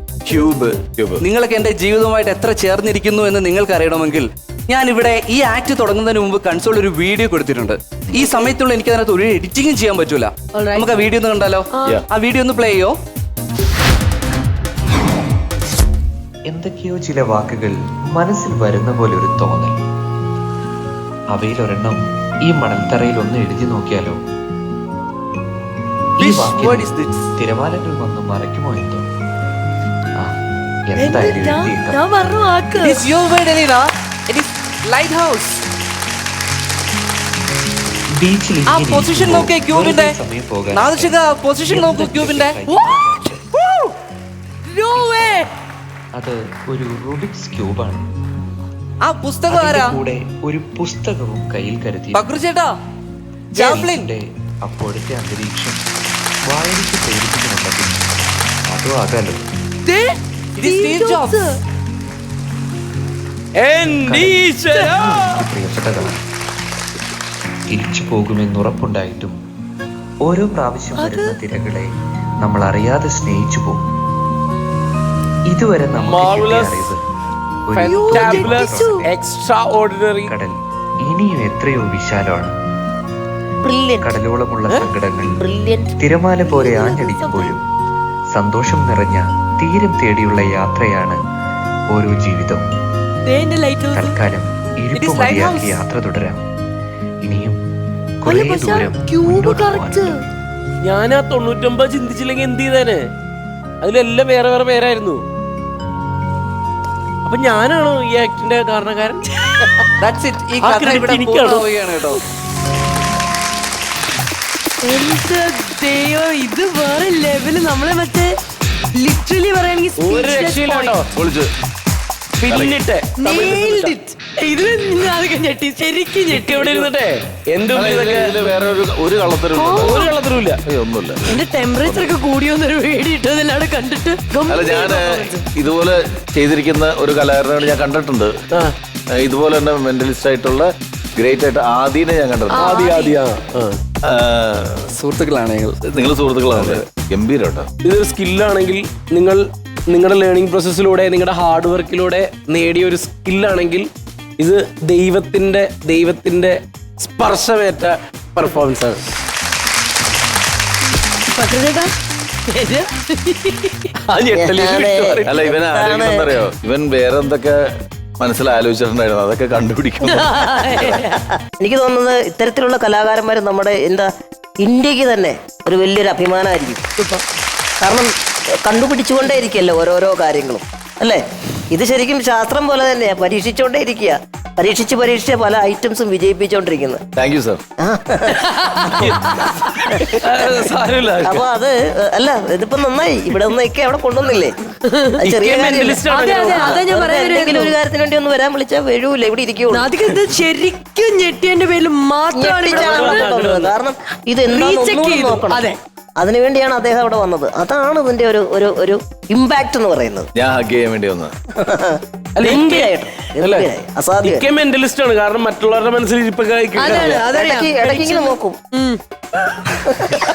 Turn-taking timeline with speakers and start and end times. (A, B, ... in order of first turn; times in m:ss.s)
0:00.2-0:13.0 A
0:01.0-0:01.2 B
0:10.5-0:10.9 C
0:11.7-0:12.0 C
0:16.5-0:19.8 D
0:21.3-0:24.2 D
0:26.2-0:29.1 D
0:26.2-0:27.3 A
0:30.9-0:32.0 D
0:31.0-0:33.0 C
0:32.8-0:35.7 A
0:38.1-0:41.2 D
0:38.7-0:40.2 A
0:40.7-0:42.6 A
0:41.7-0:43.4 D
0:42.7-0:43.0 C
0:44.7-0:45.5 C
0:46.1-0:48.0 D
0:49.0-0:50.0 A
0:49.5-0:52.3 D
0:52.1-0:52.7 A
0:53.5-0:54.1 A
0:53.6-0:55.8 D
0:56.5-0:58.0 D
0:58.7-0:59.4 D
0:59.9-1:01.6 C
1:00.6-1:01.4 A
1:03.6-1:05.5 E
1:04.0-1:06.2 D
1:07.7-1:09.4 D
1:10.2-1:11.9 D
1:11.0-1:11.4 C
1:12.4-1:13.9 D
1:15.5-1:17.0 D
1:16.0-1:16.9 E
1:17.7-1:19.1 D
1:17.8-1:20.3 E
1:17.9-1:19.0 C
1:20.3-1:22.6 D
1:23.6-1:24.2 F
1:24.0-1:25.4 D
1:25.4-1:25.9 F
1:26.0-1:27.6 D
1:26.5-1:27.6 C
1:28.3-1:31.2 D
1:31.9-1:32.7 D
1:33.3-1:34.2 C
1:33.9-1:36.4 D
1:35.0-1:35.8 A
1:37.2-1:37.6 D
1:38.2-1:40.2 D
1:38.3-1:40.2 C
1:40.8-1:43.1 E
1:43.8-1:45.2 E
1:47.2-1:49.3 E
1:49.4-1:49.8 C
1:50.0-1:52.2 A
1:50.6-1:51.7 E
1:54.8-1:58.3 C
1:58.9-2:01.0 C
2:00.0-2:01.1 E
2:01.1-2:01.5 B
2:02.4-2:04.0 E
2:02.5-2:02.8 B
2:03.2-2:06.9 C
2:06.3-2:08.4 E
2:07.7-2:10.1 B
2:09.6-2:10.1 C
2:09.8-2:10.6 E
2:10.7-2:11.2 B
2:11.2-2:15.4 C
2:11.8-2:12.1 B
2:14.5-2:18.4 B
2:19.1-2:22.7 B
2:22.5-2:23.2 C
2:22.6-2:23.8 E
2:24.0-2:24.9 B
2:24.9-2:26.0 A
2:25.9-2:27.7 B
2:27.8-2:39.0 E
2:41.3-2:41.9 C
2:42.5-2:43.9 C
2:44.1-2:44.4 B
2:44.1-2:45.3 E
2:44.3-2:46.4 F
2:45.2-2:47.6 B
2:48.2-2:50.9 B
2:50.0-2:51.3 C
2:50.8-2:56.8 F
2:57.0-2:57.2 C
2:57.8-3:07.0 F
3:07.2-3:07.6 B
3:07.8-3:08.4 F
3:08.3-3:09.7 C
3:09.0-3:11.5 E
3:09.9-3:14.6 F
3:14.9-3:15.2 C
3:15.2-3:16.0 F
3:15.2-3:16.8 E
3:16.1-3:17.8 C
3:16.6-3:19.9 F
3:19.7-3:23.3 C
3:22.3-3:30.3 F
3:22.7-3:23.8 E
3:24.5-3:25.8 C
3:30.4-3:31.4 B
3:31.6-3:34.5 F
3:32.4-3:33.7 E
3:34.2-3:37.1 E
3:36.8-3:39.0 C
3:36.9-3:38.6 F
3:39.9-3:40.2 F